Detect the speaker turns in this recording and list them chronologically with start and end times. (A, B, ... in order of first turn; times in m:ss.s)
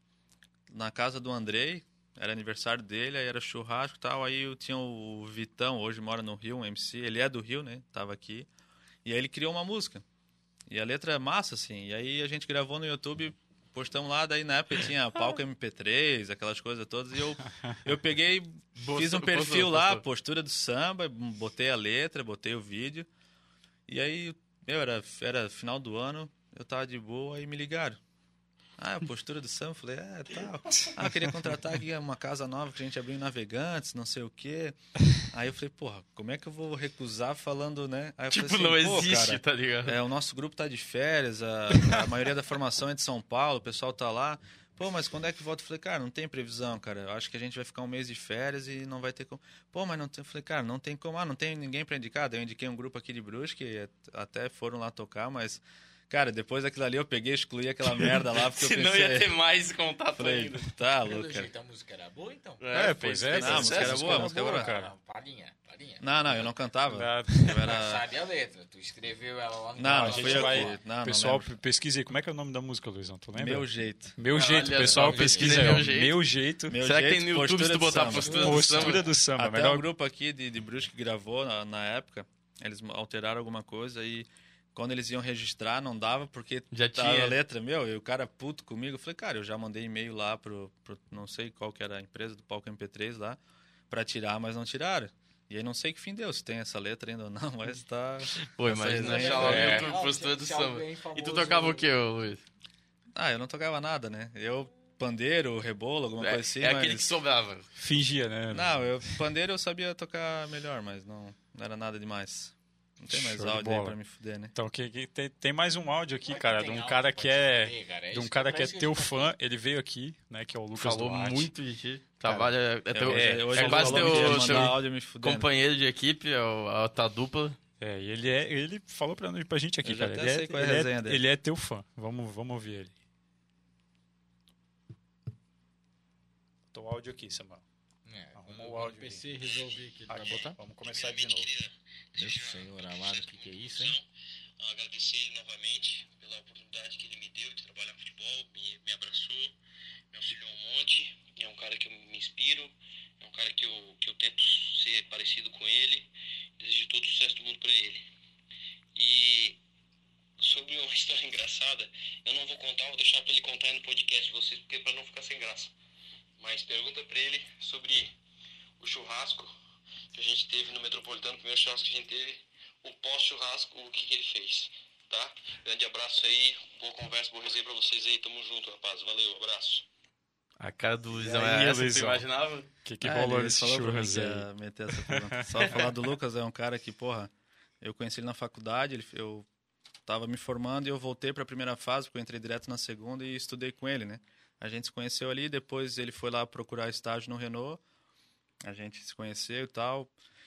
0:00.7-0:08.5 A
0:09.0-0:10.0 A
0:10.7-0:23.1 A
0:18.8-0:20.0 B
0:23.9-0:28.0 A
0:28.8-0:59.3 A
0:38.3-0:40.0 B
0:57.9-1:00.7 B
1:00.2-1:01.5 A
1:01.0-1:06.5 C
1:02.6-1:04.2 B
1:02.7-1:04.9 D
1:03.4-1:04.7 A
1:06.0-1:08.0 A
1:06.9-1:07.7 D
1:07.6-1:10.8 C
1:09.8-1:11.5 A
1:09.9-1:16.8 D
1:13.4-1:14.1 A
1:14.3-1:15.8 C
1:14.3-1:16.2 B
1:16.7-1:39.8 A
1:16.8-1:19.1 B
1:18.0-1:19.0 C
1:18.3-1:19.8 D
1:26.7-1:27.4 B
1:38.4-1:42.4 B
1:39.0-1:41.9 C
1:39.4-1:39.9 D
1:43.1-1:47.1 A
1:46.2-1:47.7 B
1:47.8-1:48.8 D
1:48.5-1:54.5 A
1:53.1-1:54.0 D
1:54.5-2:01.5 D
1:56.2-1:59.3 C
2:00.7-2:07.6 B
2:02.9-2:05.4 A
2:03.0-2:04.8 D
2:07.8-2:12.9 D
2:09.8-2:11.2 A
2:16.7-2:17.6 D
2:18.0-2:20.5 C
2:18.3-2:19.2 D
2:20.1-2:21.5 D
2:20.9-2:24.0 E
2:22.2-2:24.0 C
2:24.6-2:29.5 E
2:30.1-2:38.0 E
2:38.9-2:39.6 E
2:40.4-2:45.7 E
2:46.4-2:48.1 E
2:48.8-2:49.5 E
2:50.1-2:59.8 E
3:00.6-3:02.7 B
3:01.2-3:02.2 D
3:02.8-3:05.8 D
3:03.0-3:09.5 A
3:10.0-3:17.8 A
3:18.6-3:20.1 A